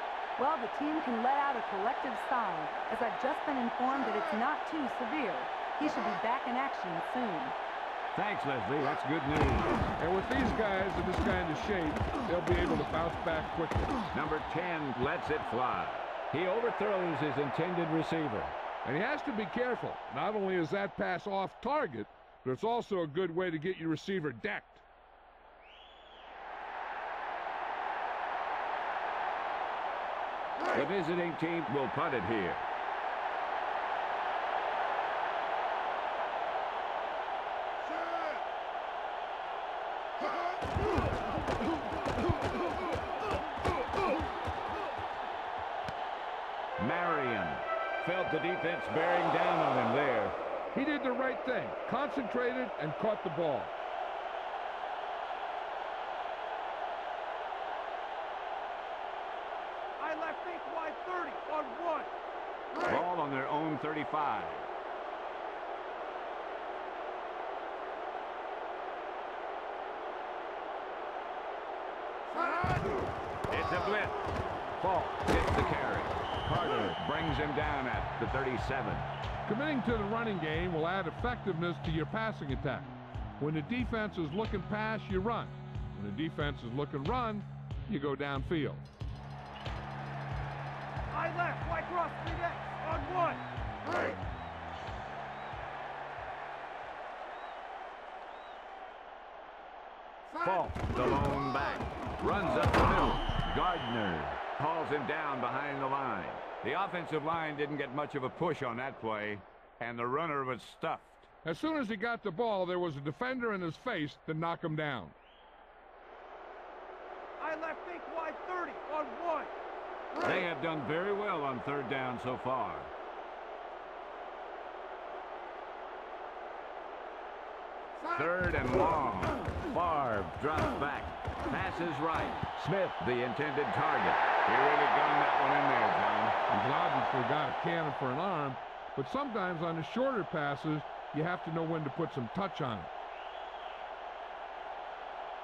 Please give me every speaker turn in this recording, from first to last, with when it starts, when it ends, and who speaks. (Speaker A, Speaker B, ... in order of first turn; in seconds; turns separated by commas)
Speaker A: 0.4-7.5, Speaker B: 8.1-9.8, Speaker C: 10.0-14.0, Speaker B: 14.1-18.6, Speaker C: 18.8-24.8, Speaker B: 30.7-32.6, Speaker B: 46.8-50.4, Speaker C: 50.7-53.7, Speaker D: 60.0-62.1, Speaker B: 62.8-64.7, Speaker B: 73.5-74.2, Speaker B: 74.8-79.1, Speaker C: 79.5-88.8, Speaker D: 91.1-93.4, Speaker B: 100.3-111.3, Speaker C: 111.4-115.1, Speaker D: 117.4-119.5, Speaker B: 120.2-122.9, Speaker B: 128.1-136.4, Speaker C: 136.5-142.9